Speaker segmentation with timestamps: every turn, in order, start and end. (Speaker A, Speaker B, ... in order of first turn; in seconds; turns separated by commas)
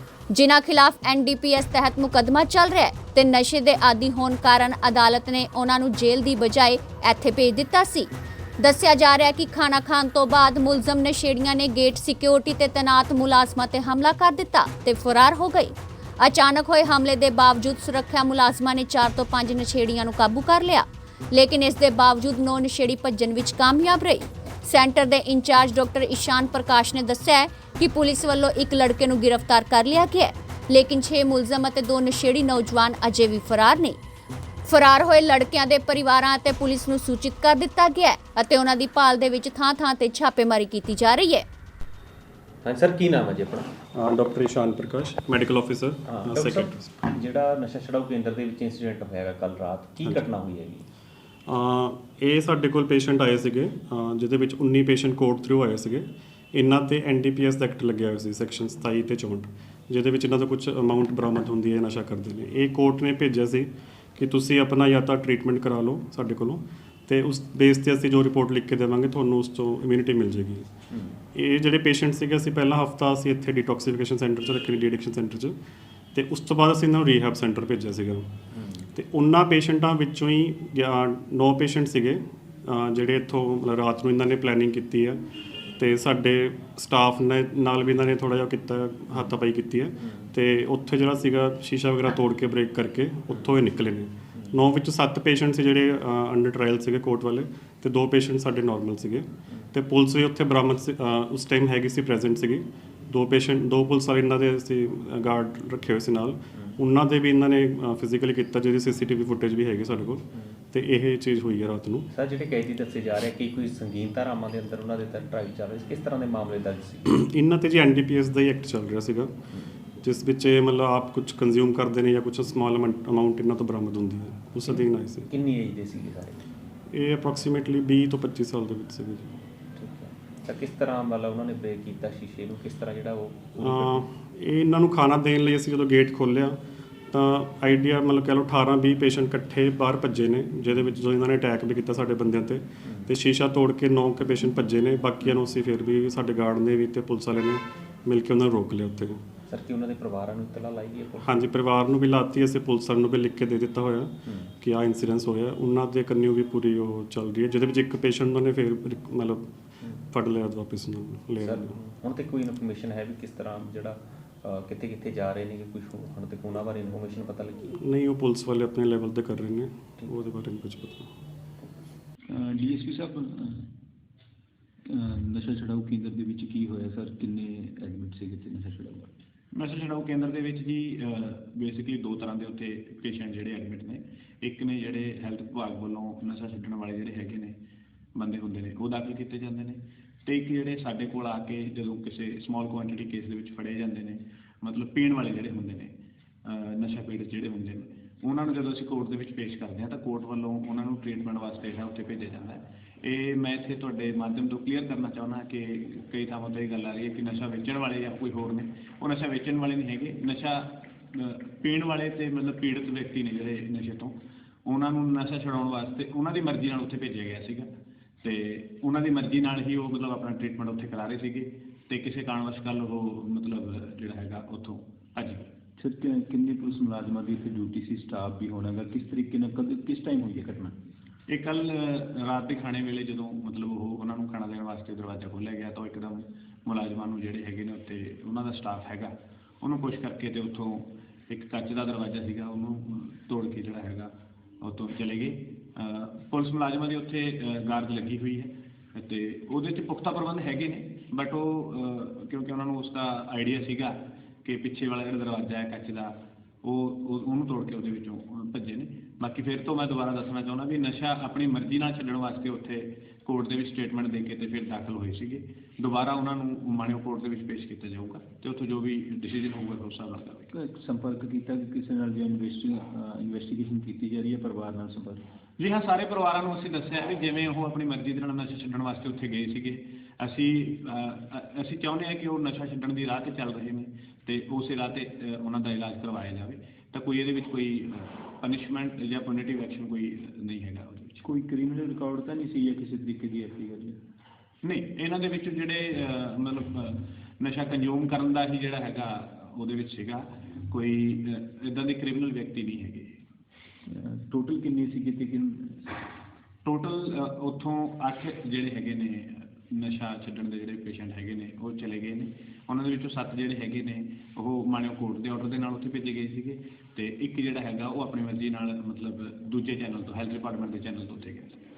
Speaker A: 0.3-34.0, Speaker A: 34.6-41.5, Speaker B: 42.6-43.7, Speaker C: 43.9-46.9, Speaker B: 46.1-50.9, Speaker C: 51.5-70.7, Speaker B: 70.9-71.2, Speaker C: 71.3-75.6, Speaker C: 76.1-78.3, Speaker B: 78.5-78.9, Speaker C: 79.0-85.2, Speaker C: 85.8-112.1, Speaker B: 90.0-90.3, Speaker B: 112.1-117.0, Speaker C: 117.1-119.3, Speaker C: 120.0-125.3, Speaker B: 124.8-126.4, Speaker C: 126.9-129.3, Speaker B: 129.7-134.0, Speaker C: 133.6-136.6, Speaker C: 137.1-149.2, Speaker B: 149.5-151.4, Speaker C: 151.2-159.5, Speaker B: 154.3-154.5, Speaker C: 160.0-161.8, Speaker B: 161.4-167.7, Speaker C: 167.8-171.1, Speaker D: 172.3-173.7, Speaker D: 174.9-179.1, Speaker E: 179.5-187.6, Speaker E: 188.2-195.9, Speaker E: 196.4-217.7, Speaker E: 218.2-225.5, Speaker D: 225.8-230.7, Speaker E: 231.3-270.5, Speaker D: 270.5-275.2, Speaker E: 275.6-291.2, Speaker D: 291.2-294.0, Speaker E: 294.6-303.1, Speaker D: 303.9-305.8, Speaker E: 306.6-321.6